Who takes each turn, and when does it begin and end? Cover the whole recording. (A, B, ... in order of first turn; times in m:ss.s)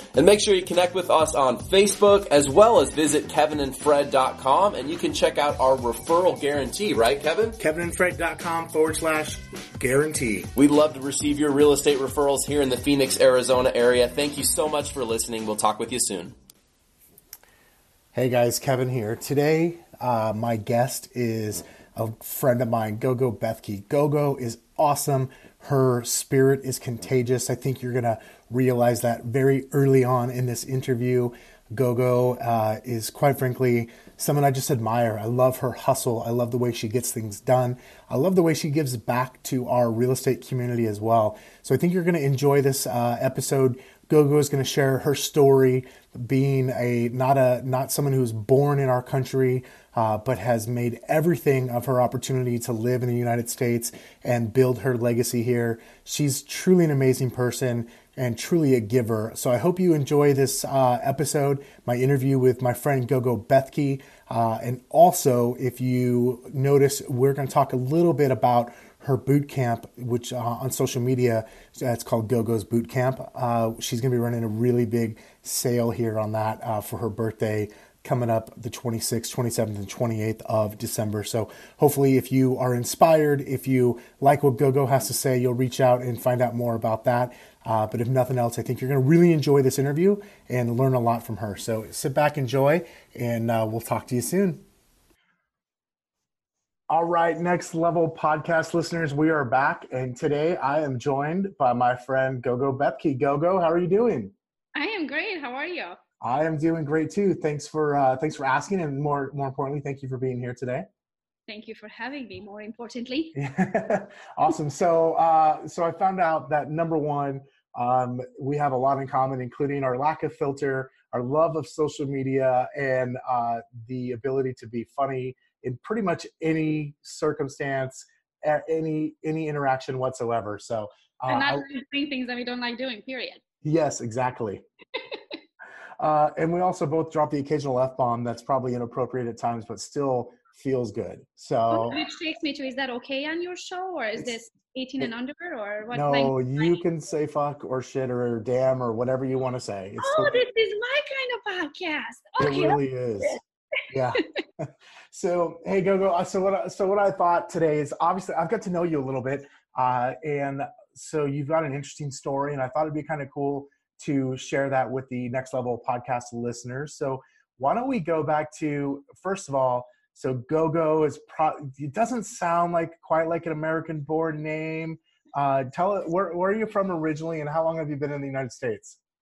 0:00.1-0:07.6 A
0:07.6-0:10.5 B
0:10.6-0:16.3 A
0:18.1-1:34.6 B
1:36.9-1:44.3 B
1:44.7-1:46.0 C
1:46.2-1:50.8 B
1:51.5-1:53.3 C
1:53.3-2:11.6 B
2:11.3-2:13.4 C
2:13.6-2:14.6 B
2:16.0-2:22.0 B
2:21.7-2:26.8 C
2:25.9-2:30.4 B
2:30.0-2:33.4 C
2:32.4-2:59.0 B